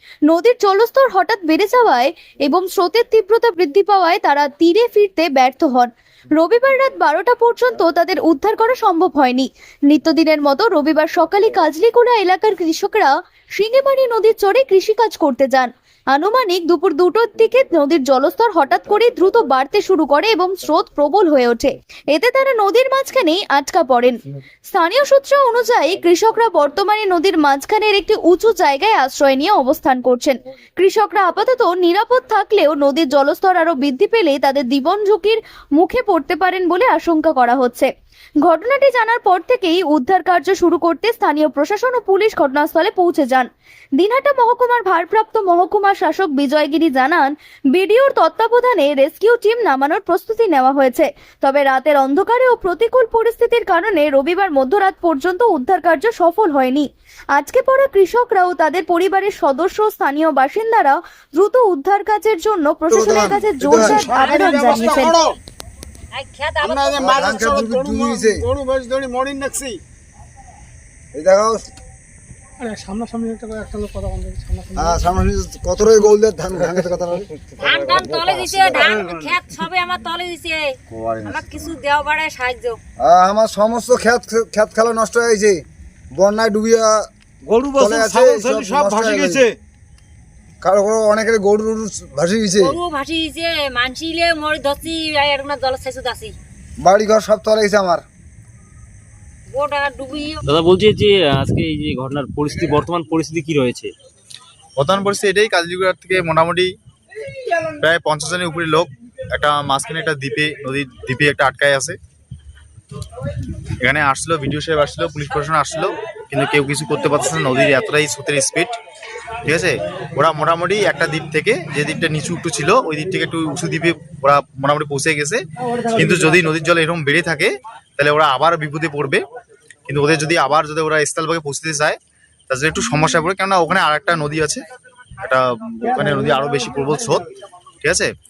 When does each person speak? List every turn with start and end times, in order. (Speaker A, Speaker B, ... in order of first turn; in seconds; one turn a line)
Speaker A: 0.3-37.9
Speaker A: 38.4-43.5
Speaker A: 44.0-65.2
Speaker B: 62.9-64.2
Speaker C: 63.8-65.4
Speaker D: 66.1-67.0
Speaker C: 66.6-69.8
Speaker B: 66.9-68.5
Speaker B: 71.1-71.7
Speaker E: 72.6-74.9
Speaker B: 74.8-79.0
Speaker D: 77.6-80.6
Speaker C: 78.8-79.5
Speaker B: 80.9-81.8
Speaker D: 81.2-82.8
Speaker B: 83.0-85.6
Speaker B: 86.1-87.1
Speaker C: 87.4-89.5
Speaker B: 87.8-89.5
Speaker B: 90.6-92.8
Speaker D: 92.6-96.3
Speaker B: 96.8-98.0
Speaker D: 99.5-100.4
Speaker F: 100.5-103.9
Speaker G: 104.8-106.7
Speaker G: 107.8-112.0
Speaker G: 113.8-118.7
Speaker G: 119.4-129.2
Speaker G: 129.8-132.0
Speaker G: 132.5-134.6
Speaker G: 135.2-137.2
Speaker G: 137.8-138.1